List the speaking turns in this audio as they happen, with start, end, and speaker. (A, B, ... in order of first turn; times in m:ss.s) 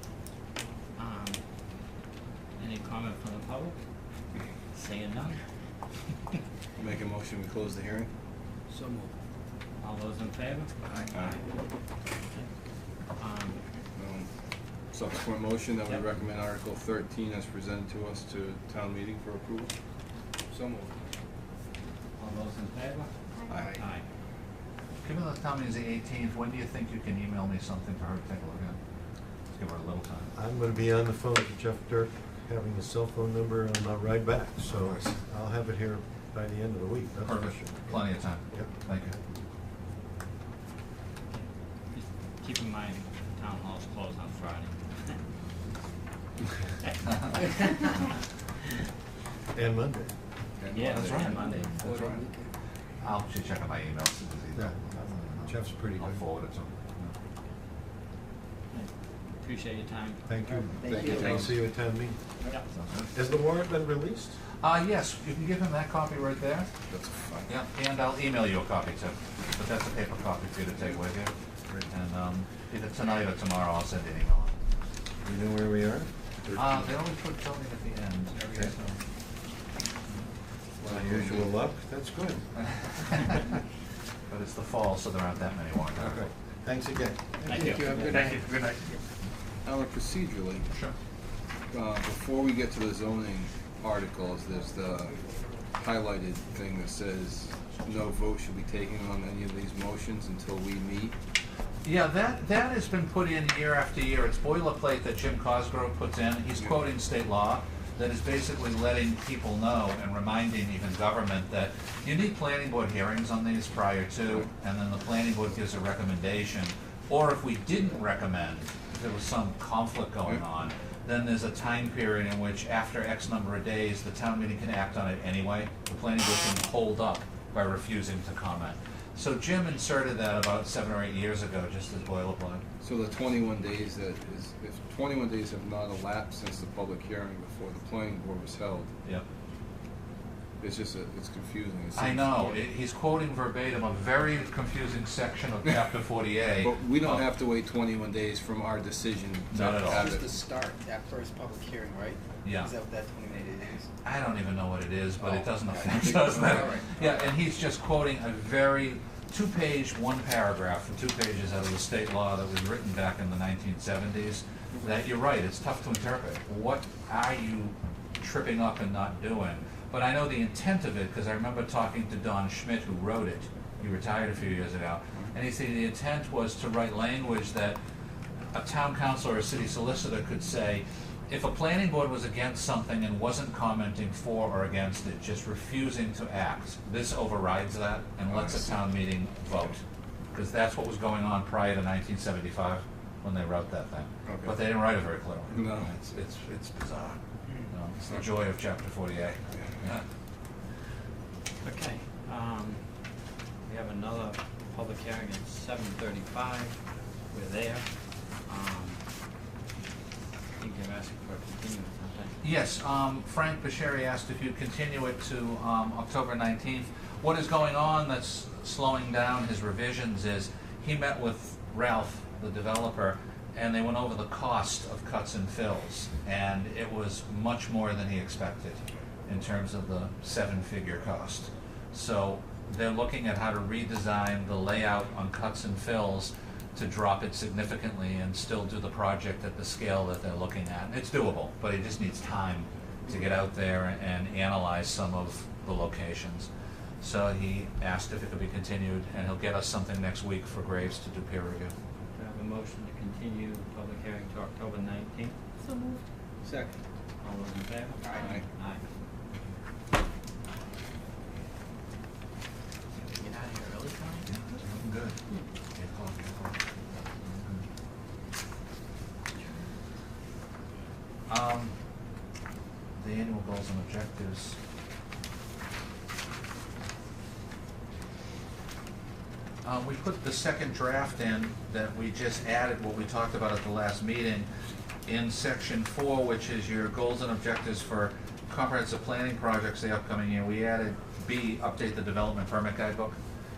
0:01.0-0:01.4 A
0:02.6-0:03.8 A
0:04.7-0:05.4 A
0:06.8-0:08.1 B
0:08.7-0:09.1 C
0:09.8-0:10.7 A
0:10.9-0:11.4 B
0:13.2-0:13.6 A
0:14.0-0:14.3 B
0:14.9-0:19.7 B
0:20.5-0:20.9 C
0:22.2-0:23.1 A
0:23.5-0:23.8 B
0:23.7-0:24.0 A
0:25.0-0:28.8 D
0:29.5-0:30.3 D
0:30.3-0:38.7 E
0:34.7-0:35.0 D
0:37.2-0:39.2 D
0:41.3-0:45.2 A
0:49.5-0:50.1 E
0:50.6-0:51.4 B
0:50.7-0:51.8 A
0:50.9-0:52.2 D
0:51.2-0:52.5 C
0:53.0-0:57.1 D
0:54.5-0:56.2 E
0:58.7-1:00.6 A
1:00.3-1:02.2 E
1:00.8-1:01.5 C
1:00.8-1:01.6 B
1:02.7-1:03.1 D
1:03.1-1:04.3 E
1:04.6-1:06.7 D
1:06.9-1:07.5 B
1:07.4-1:11.3 D
1:11.9-1:14.6 D
1:15.2-1:16.7 E
1:16.5-1:19.0 D
1:20.8-1:21.4 B
1:20.8-1:22.6 E
1:22.8-1:23.4 D
1:24.3-1:26.3 D
1:25.9-1:27.8 E
1:27.4-1:29.0 C
1:27.5-1:28.4 A
1:29.6-1:30.7 B
1:31.7-1:41.1 B
1:41.8-2:12.6 D
2:12.8-2:18.9 B
2:20.6-2:22.5 B
2:21.9-2:27.3 D
2:26.6-2:30.4 B
2:29.5-2:30.1 D
2:29.7-2:33.9 C
2:32.4-2:32.7 D
2:34.0-2:57.8 D
2:35.2-2:37.3 C
2:36.3-2:36.6 B
2:58.5-3:09.8 D
3:10.3-3:20.0 D
3:14.2-3:14.6 B
3:15.5-3:15.9 B
3:21.6-3:22.8 A
3:23.6-3:26.8 A
3:27.3-3:27.9 A
3:28.4-3:29.0 A
3:30.6-3:32.4 A
3:32.4-4:06.5 D
4:07.0-4:11.7 D
4:12.1-4:15.4 A
4:16.4-4:16.8 B
4:17.2-4:18.8 A
4:18.0-4:18.3 C
4:18.2-4:18.4 B
4:23.2-4:24.2 C
4:24.2-4:25.2 D
4:25.7-4:26.6 D
4:27.2-4:27.6 D
4:31.3-4:31.7 D
4:33.0-4:34.6 D
4:39.6-4:44.5 D
4:45.1-4:53.2 D